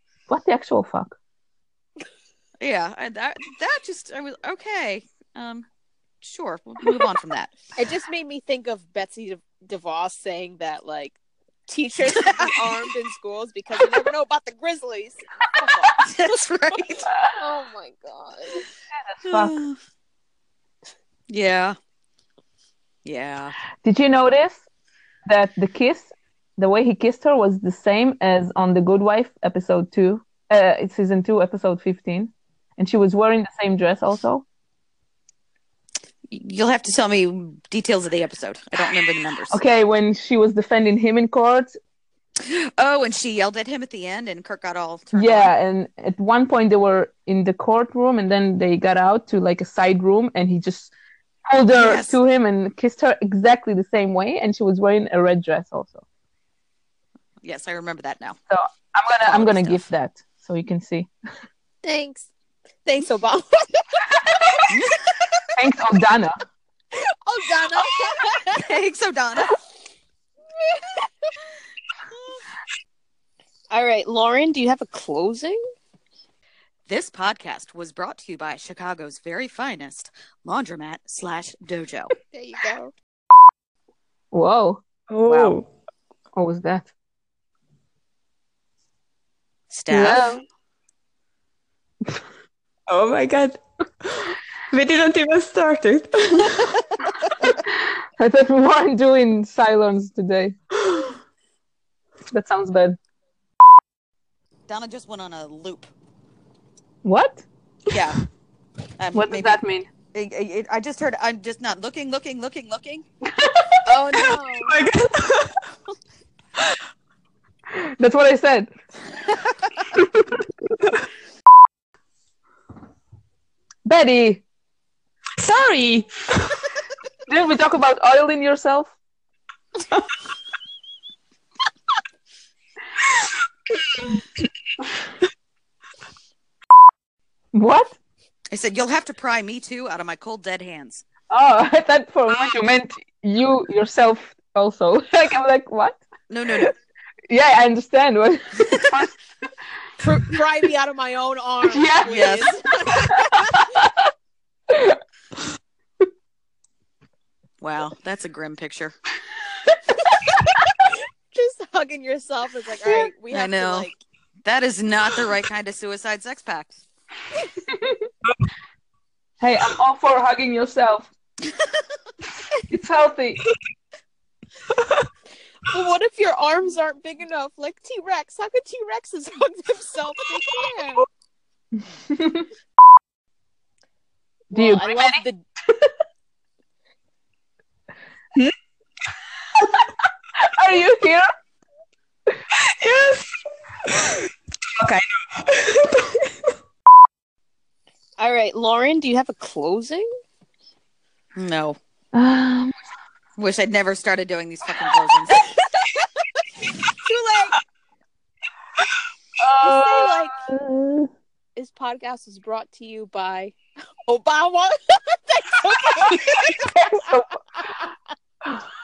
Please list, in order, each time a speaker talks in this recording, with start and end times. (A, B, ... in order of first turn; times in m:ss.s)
0:00.3-0:01.1 A
0:02.6-0:05.6 B
0:06.2-0:07.5 B
0:07.8-0:11.2 C
0:11.7-0:18.7 C
0:12.3-0:12.5 B
0:16.0-0:17.1 B
0:19.1-0:19.6 A
0:19.2-0:19.8 B
0:21.3-0:21.8 B
0:23.0-0:23.6 B
0:23.8-0:24.6 A
0:25.3-0:34.4 A
0:36.3-0:39.6 B
0:39.5-0:41.7 A
0:42.4-0:45.5 B
0:45.1-0:50.9 A
0:51.5-0:56.0 A
0:51.7-0:52.2 B
0:57.4-0:58.4 B
0:58.5-1:01.1 A
0:59.2-0:59.8 B
1:01.8-1:02.3 C
1:02.8-1:04.6 C
1:04.7-1:05.4 B
1:05.5-1:06.4 A
1:06.9-1:08.8 C
1:08.3-1:09.6 B
1:10.6-1:11.3 C
1:13.7-1:15.6 C
1:16.9-1:22.1 B
1:22.3-1:22.9 C
1:24.3-1:24.8 A
1:25.1-1:25.7 D
1:25.2-1:25.6 B
1:26.3-1:26.9 A
1:29.7-1:30.3 B
1:29.9-1:30.4 A
1:32.9-1:36.7 D
1:37.6-1:40.6 A
1:42.3-1:43.0 A
1:44.7-1:45.9 B
1:47.0-1:47.4 A
1:47.9-1:48.2 B
1:49.0-1:49.6 B
1:49.1-1:49.9 A
1:50.1-1:53.0 B
1:53.4-1:53.8 A
1:53.8-1:54.8 C
1:54.5-1:55.6 D
1:57.7-1:58.7 A
1:59.9-2:00.4 A
2:03.8-2:04.4 A
2:05.4-2:06.6 D
2:07.3-2:08.9 A
2:17.5-2:18.0 A
2:18.5-2:21.0 B
2:21.3-2:26.7 A
2:26.3-2:26.7 B
2:27.3-2:29.2 A
2:30.0-2:32.6 C
2:31.7-2:33.9 A
2:32.1-2:33.4 B
2:34.7-2:35.0 A
2:37.6-2:38.9 B
2:41.3-2:44.0 C
2:43.3-2:43.9 B
2:44.4-2:46.7 B
2:47.7-2:48.1 A
2:49.4-2:51.1 A
2:52.7-2:53.4 A
2:54.7-2:55.0 D
2:55.6-3:01.0 C
3:01.8-3:02.5 A
3:04.5-3:05.2 A
3:04.5-3:05.4 C
3:10.4-3:11.3 A
3:12.5-3:16.5 D
3:18.2-3:20.0 C
3:21.4-3:21.8 B
3:22.1-3:22.8 A
3:23.4-3:25.5 B
3:27.0-3:27.6 C
3:29.4-3:31.1 A
3:29.6-3:30.4 C
3:31.6-3:33.5 C
3:34.1-3:37.8 C
3:36.9-3:37.4 A